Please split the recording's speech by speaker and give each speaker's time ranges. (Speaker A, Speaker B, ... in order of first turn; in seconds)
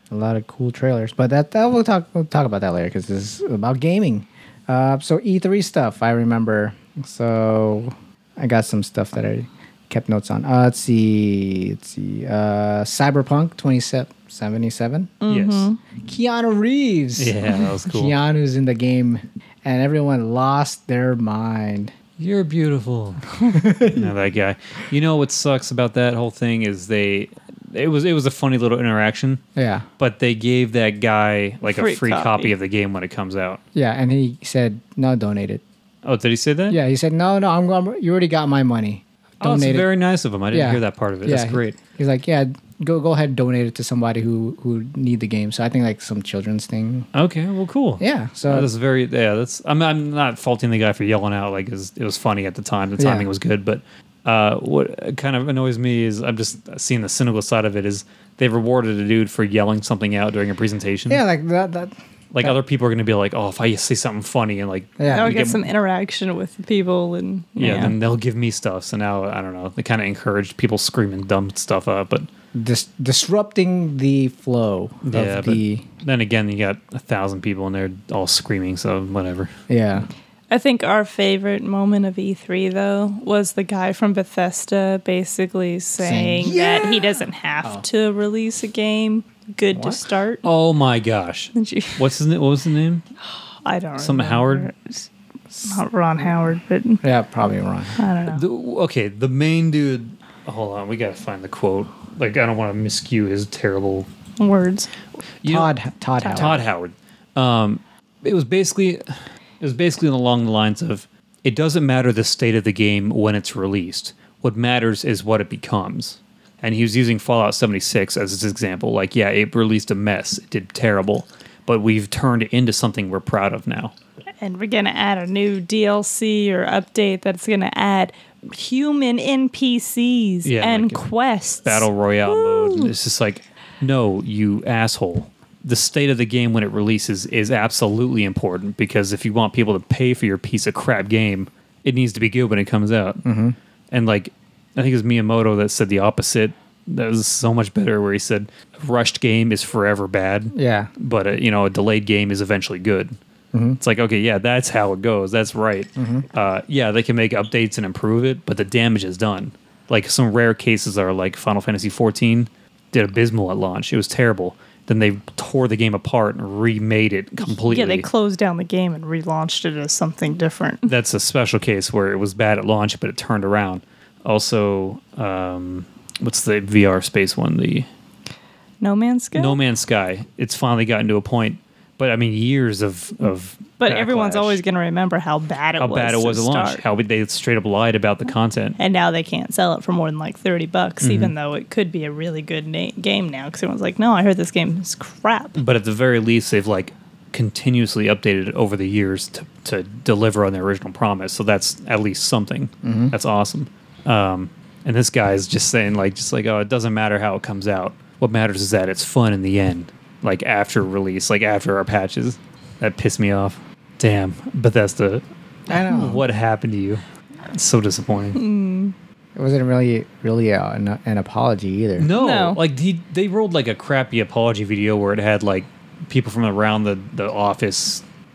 Speaker A: 0.1-15.2, 16.0-21.9, 23.5-24.1, 29.6-29.9, 33.8-35.6, 36.7-39.9, 40.5-47.1, 48.0-48.7, 53.0-53.3, 61.1-62.5, 65.0-65.4, 72.5-75.9, 79.7-80.1, 86.0-87.8, 89.7-90.0, 97.0-98.0, 105.5-106.6, 143.2-143.6, 150.5-150.9, 153.5-153.8, 156.0-156.3, 202.8-203.1, 215.7-216.2, 219.4-222.1
Speaker B: 15.2-15.8, 31.6-32.5, 65.1-67.9, 80.5-90.4, 91.5-92.0, 93.7-95.1, 95.7-97.0, 98.0-98.4, 104.4-104.9, 124.4-132.9, 167.4-170.9, 178.8-179.6, 183.8-186.8, 188.8-195.6, 218.3-218.9, 222.1-222.6
Speaker C: 15.3-15.7, 17.2-18.1, 22.2-29.4, 30.0-33.6, 36.0-36.8, 39.4-41.6, 47.1-61.2, 62.3-65.6, 67.6-72.3, 75.0-79.5, 90.4-93.0, 94.0-94.7, 98.3-104.1, 105.4-105.7, 106.3-123.9, 130.4-131.0, 131.6-143.2, 143.9-153.2, 153.8-168.1, 170.9-177.9, 179.3-184.6, 185.8-188.8, 191.0-191.3, 195.6-217.0, 217.5-218.4, 222.0-228.0